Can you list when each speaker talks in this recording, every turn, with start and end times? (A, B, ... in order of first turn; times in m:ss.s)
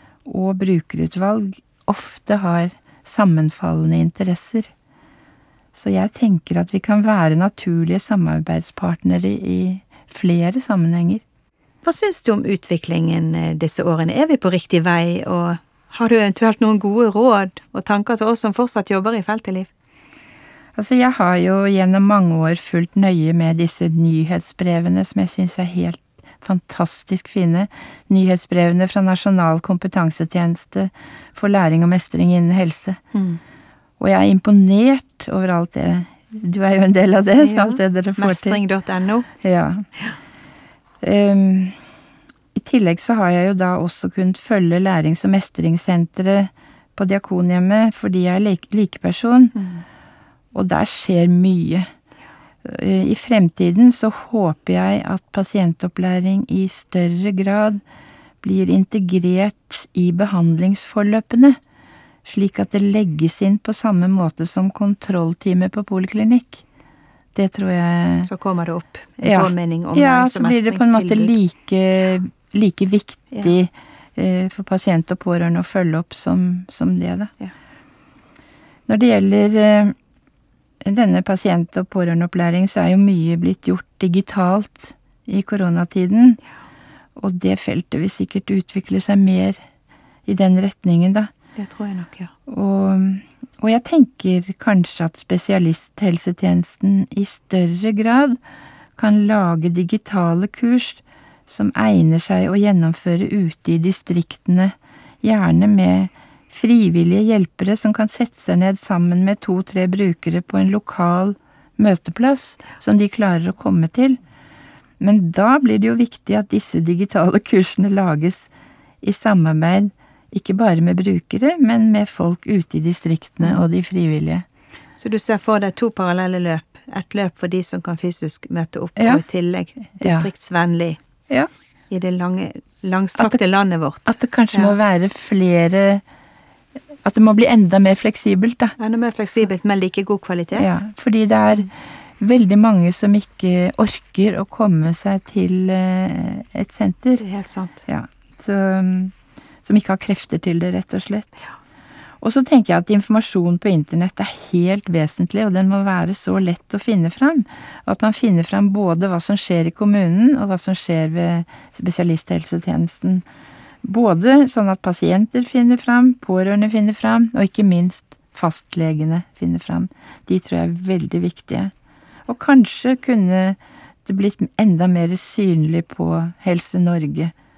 0:00.2-0:04.7 A
0:05.7-0:11.2 A
0:11.8-0:19.7 B
0:20.8-0:33.0 A
0:33.1-0:33.4 B
0:34.0-0:38.6 A
0:37.4-0:39.3 B
0:39.4-0:39.8 A
0:41.0-0:41.8 A
0:42.5-0:49.5 A
0:49.5-0:49.8 B
0:50.5-0:51.9 A
0:52.6-0:57.8 A
0:58.4-1:01.6 A
1:02.2-1:06.6 A
1:07.3-1:08.3 A
1:08.2-1:11.3 B
1:09.2-1:17.3 A
1:18.9-1:20.0 A
1:20.8-1:26.4 A
1:27.2-1:29.6 A
1:30.2-1:31.3 A
1:31.6-1:32.3 B
1:32.5-1:38.4 A
1:39.0-1:54.2 A
1:55.0-1:58.5 A
1:59.0-2:04.4 A
2:05.0-2:11.0 B
2:09.0-2:09.2 A
2:10.0-2:10.3 A
2:11.9-2:14.8 B
2:13.2-2:13.4 A
2:14.1-2:16.0 A
2:17.0-2:18.8 A
2:18.8-2:20.8 B
2:20.6-2:27.2 A
2:27.2-2:27.9 B
2:27.9-2:31.4 A
2:32.2-2:43.2 A
2:43.8-2:51.7 A
2:52.2-2:57.3 A